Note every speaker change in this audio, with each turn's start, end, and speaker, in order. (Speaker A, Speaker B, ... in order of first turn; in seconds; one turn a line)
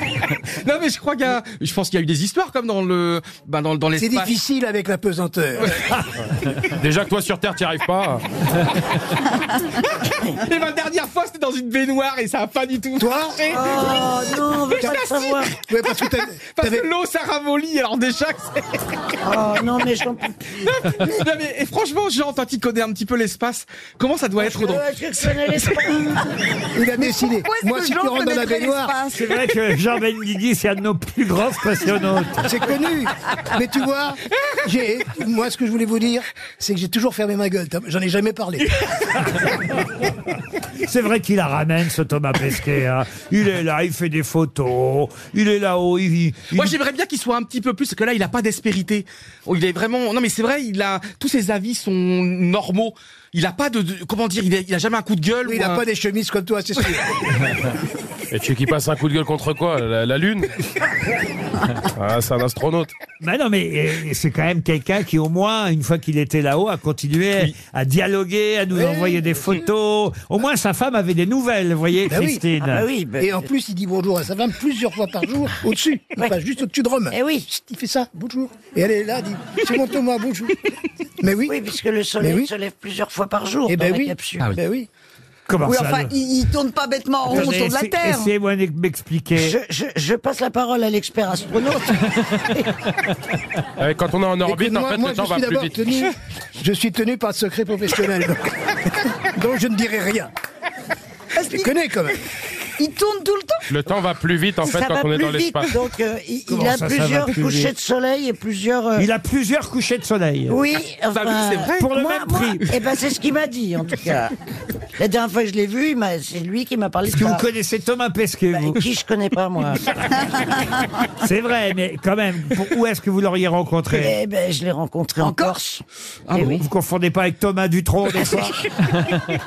Speaker A: 0.6-4.3
Speaker B: 4.0-5.7
Speaker A: 5.6-5.9
Speaker C: 6.8-8.2
Speaker A: 9.3-18.6
Speaker B: 13.0-13.4
Speaker D: 13.5-15.6
Speaker B: 15.6-16.9
Speaker D: 19.2-20.5
Speaker A: 20.6-24.9
Speaker D: 24.4-26.3
Speaker B: 26.7-29.0
Speaker E: 27.0-29.3
Speaker F: 29.1-32.5
Speaker B: 32.4-38.7
Speaker F: 40.8-46.7
Speaker A: 46.5-55.9
Speaker B: 55.4-57.1
Speaker C: 58.3-60.5
Speaker C: 62.0-62.9
Speaker F: 63.2-72.8
Speaker B: 68.7-69.6
Speaker B: 72.1-72.4
Speaker D: 72.6-73.5
Speaker B: 73.2-80.5
Speaker D: 77.1-77.5
Speaker B: 81.2-81.5
Speaker D: 81.5-84.5
Speaker B: 82.2-82.5
Speaker B: 83.7-84.9
Speaker F: 85.5-86.2
Speaker E: 85.6-88.3
Speaker F: 87.3-89.6
Speaker D: 89.3-92.7
Speaker C: 93.8-95.8
Speaker B: 94.4-100.3
Speaker E: 101.4-101.7
Speaker B: 101.5-102.2
Speaker E: 102.8-103.7
Speaker C: 103.7-105.7
Speaker D: 104.6-109.1
Speaker F: 106.5-107.7
Speaker F: 109.0-110.6
Speaker D: 110.5-114.3
Speaker A: 111.1-111.9
Speaker F: 111.8-112.6
Speaker D: 115.0-117.5
Speaker F: 117.1-118.8
Speaker D: 118.5-119.9
Speaker F: 121.2-124.2
Speaker D: 123.9-126.6
Speaker E: 125.2-125.5
Speaker A: 126.3-126.6
Speaker F: 126.4-128.5